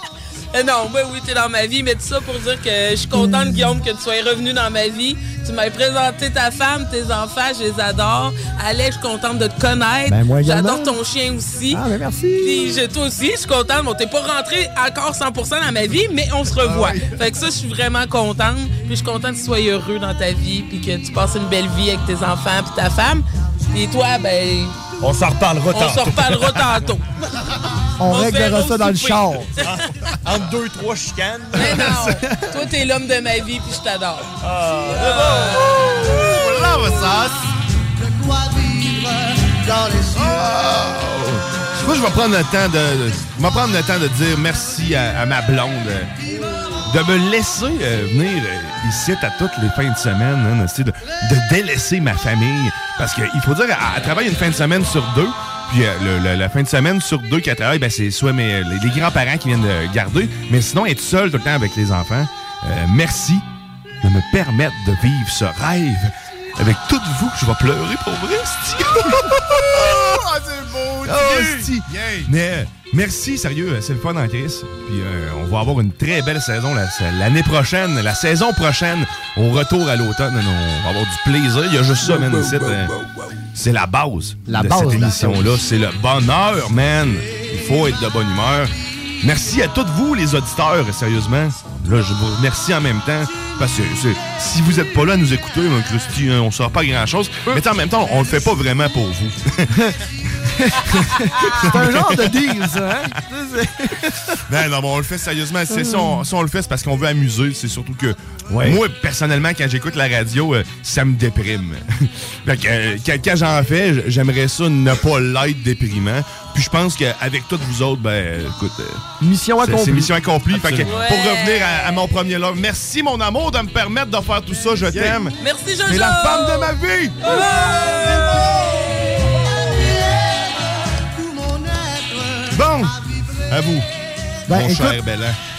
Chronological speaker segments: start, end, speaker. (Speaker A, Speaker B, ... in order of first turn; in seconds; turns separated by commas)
Speaker A: 0.5-11.8, Speaker B: 3.1-3.8, Speaker B: 10.1-11.0, Speaker B: 11.7-12.8, Speaker A: 12.4-24.8, Speaker C: 25.0-26.6, Speaker A: 25.7-27.1, Speaker B: 28.0-29.5, Speaker A: 28.1-29.8, Speaker C: 29.6-32.0, Speaker A: 31.5-34.3, Speaker C: 34.4-37.3, Speaker A: 34.9-35.8, Speaker D: 40.1-46.1, Speaker D: 46.9-63.5, Speaker D: 64.0-70.1, Speaker E: 69.5-72.3, Speaker D: 71.0-82.9, Speaker E: 82.2-82.6, Speaker D: 83.5-88.7, Speaker B: 84.5-85.6, Speaker D: 89.2-99.8, Speaker B: 100.6-104.3, Speaker D: 101.6-102.6, Speaker D: 104.5-119.1, Speaker B: 105.7-106.3, Speaker B: 119.2-120.1, Speaker D: 119.6-127.4, Speaker A: 120.8-122.0, Speaker A: 125.4-128.6, Speaker D: 132.5-133.0, Speaker D: 133.5-133.9, Speaker B: 134.5-135.0, Speaker D: 134.5-135.4